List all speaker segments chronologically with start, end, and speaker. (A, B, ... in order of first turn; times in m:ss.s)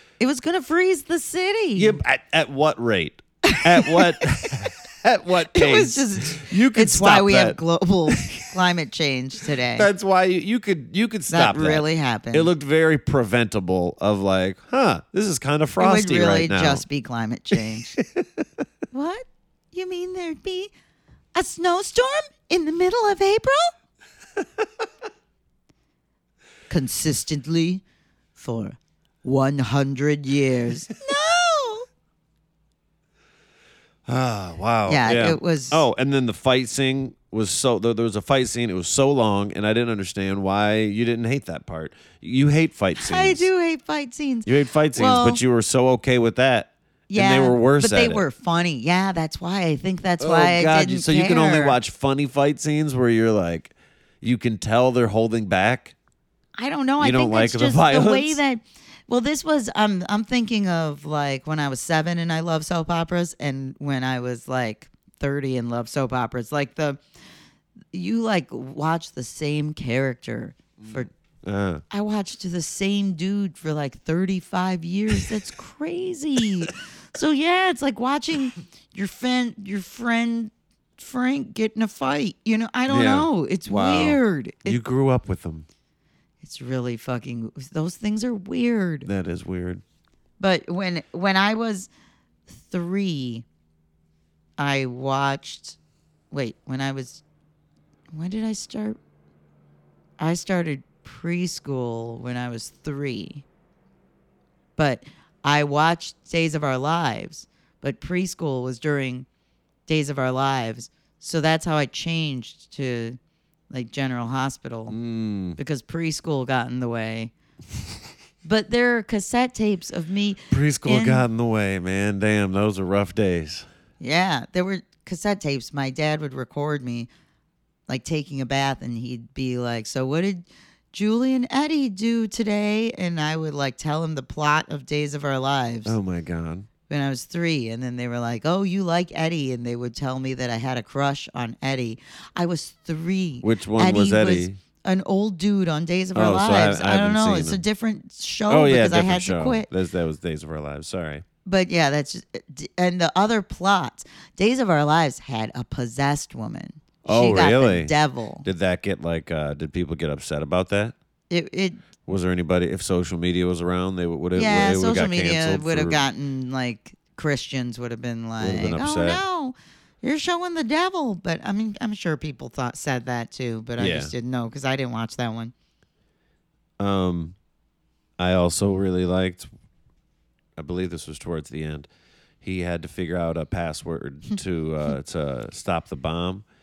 0:00.2-0:02.0 A
0:01.8-0:08.5 B
0:03.4-0:04.5 A
0:05.5-0:09.9 A
0:09.8-0:16.8 B
0:11.3-0:12.5 A
0:15.8-0:17.9 A
0:17.6-0:18.4 B
0:18.9-0:20.7 A
0:21.3-0:23.7 A
0:26.7-0:27.8 A
0:28.4-0:31.9 A
0:34.1-0:43.5 B
0:34.9-0:35.8 A
0:43.0-0:45.4 A
0:44.5-0:48.2 B
0:47.1-0:51.8 A
0:50.2-0:56.0 B
0:56.6-1:07.0 A
0:57.0-0:58.4 B
1:07.9-1:11.1 A
1:10.8-1:11.8 B
1:11.9-1:24.8 A
1:22.9-1:25.7 B
1:26.4-1:29.1 A
1:29.0-1:29.8 B
1:30.4-1:31.9 A
1:32.5-1:33.4 A
1:34.6-1:35.8 A
1:36.3-1:37.2 A
1:38.1-1:39.0 A
1:40.2-1:43.4 A
1:44.8-1:49.3 A
1:49.9-1:53.2 A
1:53.7-1:55.0 A
1:54.9-1:55.6 B
1:55.6-1:57.3 A
1:58.4-2:01.3 A
2:00.5-2:03.7 B
2:04.0-2:07.1 A
2:07.9-2:16.0 A
2:15.9-2:16.7 B
2:16.9-2:29.7 A
2:23.4-2:24.6 B
2:26.2-2:27.6 B
2:28.5-2:31.2 B
2:31.4-2:38.5 A
2:37.0-2:41.0 B
2:41.3-2:41.8 A
2:42.0-2:46.0 B
2:44.4-2:55.5 A
2:48.4-2:49.2 B
2:53.8-2:54.1 B
2:56.8-2:57.4 B
2:58.2-2:59.5 B
3:00.6-3:01.9 B
3:02.4-3:06.4 B